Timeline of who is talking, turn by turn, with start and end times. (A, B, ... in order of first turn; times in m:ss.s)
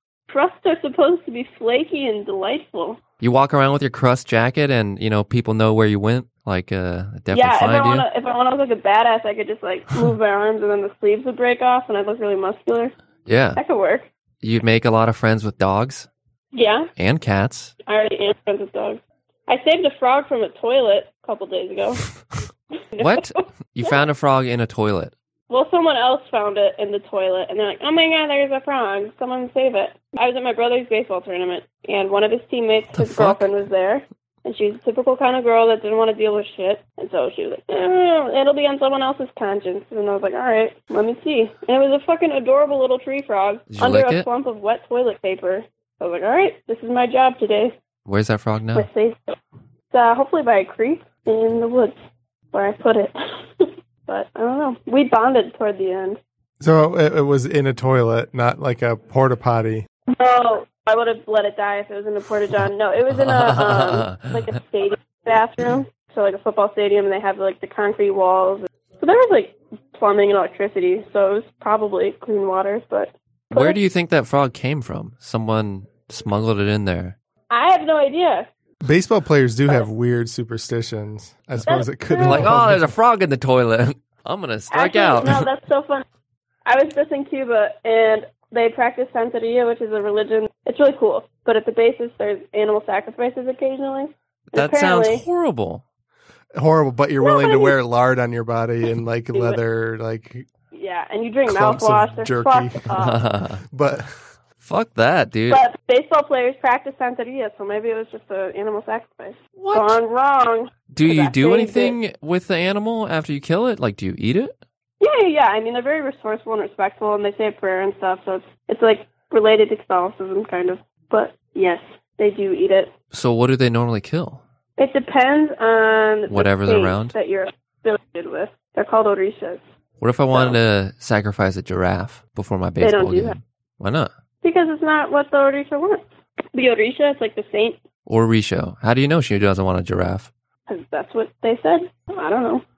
0:00.3-0:03.0 A
0:03.2-0:08.0 B
0:07.3-0:12.9 A
0:13.3-0:13.6 B
0:13.6-0:14.1 A
0:14.4-0:16.1 B
0:16.5-0:16.9 A
0:17.0-0:17.7 B
0:17.8-0:22.0 A
0:22.9-0:24.1 A
0:23.0-0:25.1 B
0:25.5-0:47.7 A
0:32.9-0:33.5 B
0:43.7-0:44.2 B
0:48.0-0:48.9 B
0:48.7-0:49.3 A
0:49.9-0:52.0 A
0:52.5-0:56.2 A
0:56.6-0:59.8 C
1:00.1-1:13.8 A
1:03.1-1:04.5 B
1:13.5-1:17.2 B
1:17.5-1:18.5 A
1:18.8-1:22.8 C
1:21.6-1:22.6 A
1:22.2-1:25.4 B
1:24.7-1:26.0 A
1:26.6-1:35.2 A
1:34.5-1:35.8 B
1:36.6-1:40.4 C
1:37.2-1:37.7 A
1:39.3-1:39.6 A
1:40.7-1:43.3 A
1:41.4-1:42.9 C
1:42.9-1:43.6 B
1:43.7-1:44.1 C
1:44.6-1:45.6 B
1:45.5-1:52.0 A
1:49.6-1:50.0 B
1:50.9-1:54.6 B
1:55.0-2:02.9 A
2:03.1-2:04.4 B
2:04.8-2:09.6 A
2:06.3-2:07.1 B
2:10.0-2:14.1 B
2:10.3-2:10.6 A
2:12.8-2:13.4 A
2:14.4-2:17.8 A
2:18.0-2:20.3 B
2:20.7-2:22.6 A